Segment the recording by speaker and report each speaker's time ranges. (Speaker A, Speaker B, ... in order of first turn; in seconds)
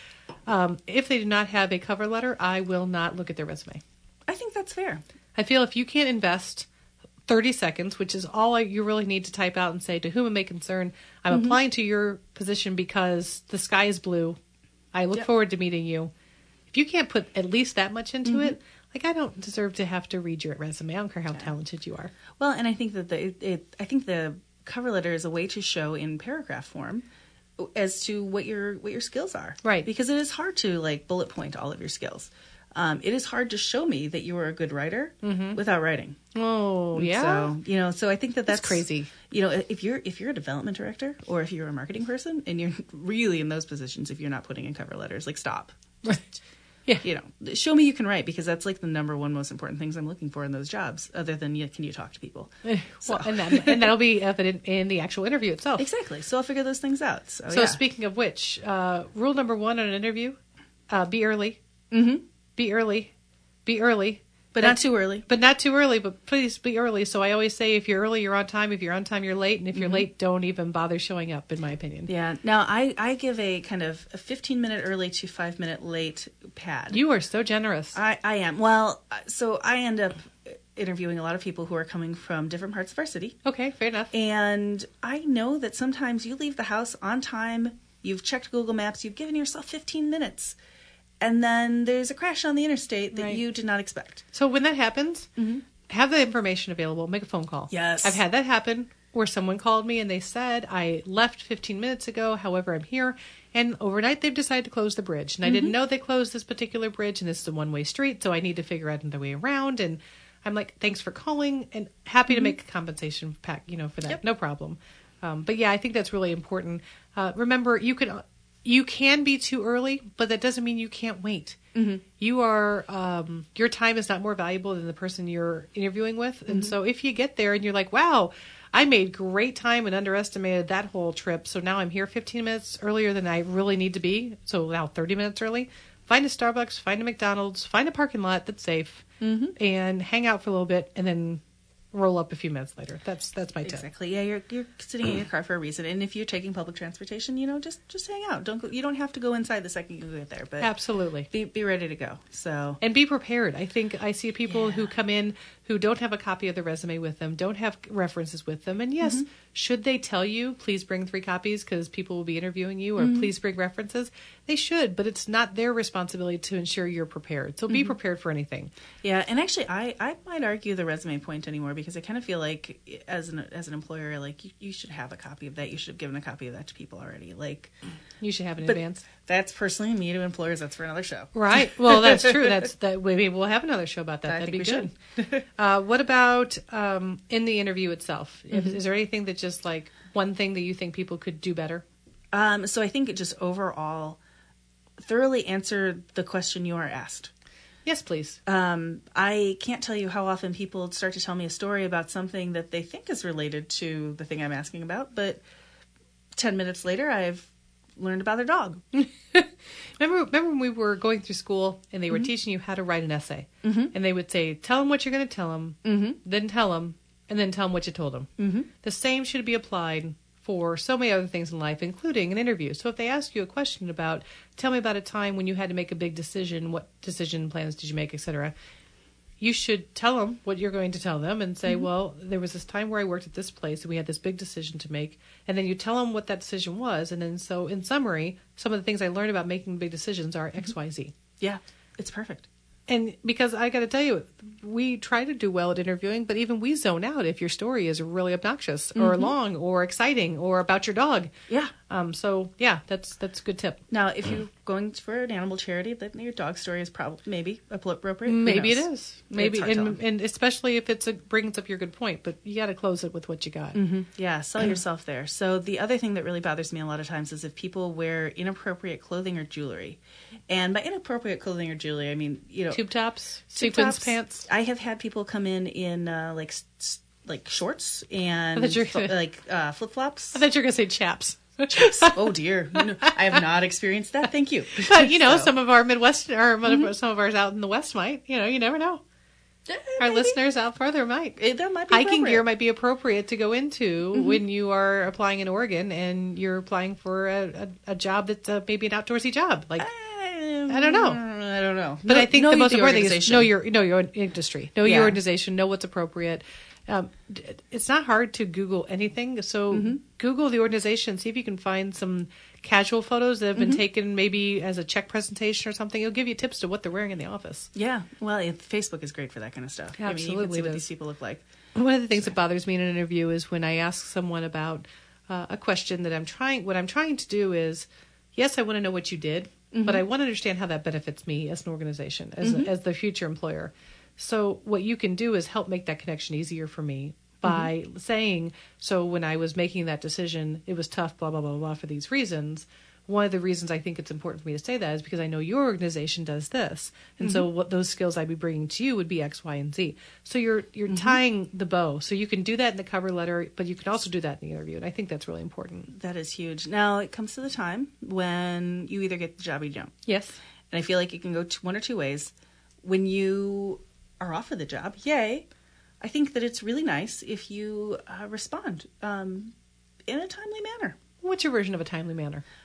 Speaker A: 0.5-3.8, 5.3-6.7, 7.3-14.4, 14.9-16.1, 16.7-22.1, 35.2-35.6, 36.3-37.5, 38.5-39.1, 46.0-47.0, 52.6-55.9, 57.5-60.4, 60.9-61.6, 62.6-63.1, 63.6-72.1, 76.9-78.0, 83.4-84.1, 93.1-93.4, 94.3-95.3, 95.9-121.6, 122.2-139.0, 139.6-141.4, 141.9-143.8, 150.6-151.3, 152.8-168.7, 178.2-179.1, 181.3-184.9, 185.6-191.8, 197.8-198.4, 208.9-218.3, 218.8-228.5, 229.4-241.1, 242.9-251.3, 251.9-253.8, 258.2-263.8, 272.7-274.4, 278.5-279.1, 280.3-283.1, 284.7-289.0, 290.0-291.3, 291.9-299.9, 300.7-301.2, 302.0-317.7, 319.9-320.8, 321.7-355.9, 360.1-360.4, 371.2-372.4
Speaker B: 4.3-5.0, 11.3-11.6, 18.2-18.6, 22.4-27.1, 27.6-36.2, 36.9-46.2, 47.0-52.5, 53.0-54.0, 55.8-57.8, 61.9-62.2, 64.5-65.2, 69.7-70.1, 72.1-77.0, 77.9-83.4, 84.1-90.5, 91.2-94.2, 95.4-95.6, 97.7-98.2, 105.4-105.7, 112.3-112.5, 121.7-122.0, 126.5-126.7, 139.2-139.6, 143.6-150.7, 151.3-152.8, 154.4-154.9, 163.0-163.3, 167.7-167.9, 169.0-177.7, 178.6-182.7, 184.2-184.9, 188.5-188.8, 192.3-194.2, 195.0-197.3, 198.4-205.4, 206.3-208.8, 213.6-213.9, 215.8-216.2, 218.4-218.7, 241.4-242.5, 248.9-249.3, 253.9-260.0, 263.7-272.8, 273.6-280.4, 281.7-285.5, 286.6-286.9, 289.7-290.4, 291.4-292.4, 294.1-294.4, 299.8-303.5, 304.8-305.2, 309.7-310.0, 313.6-313.8, 317.7-321.4, 329.7-330.0, 332.4-332.7, 337.4-337.7, 347.2-347.5, 350.9-351.2, 355.9-359.9, 360.7-365.5, 366.0-369.5, 370.1-370.9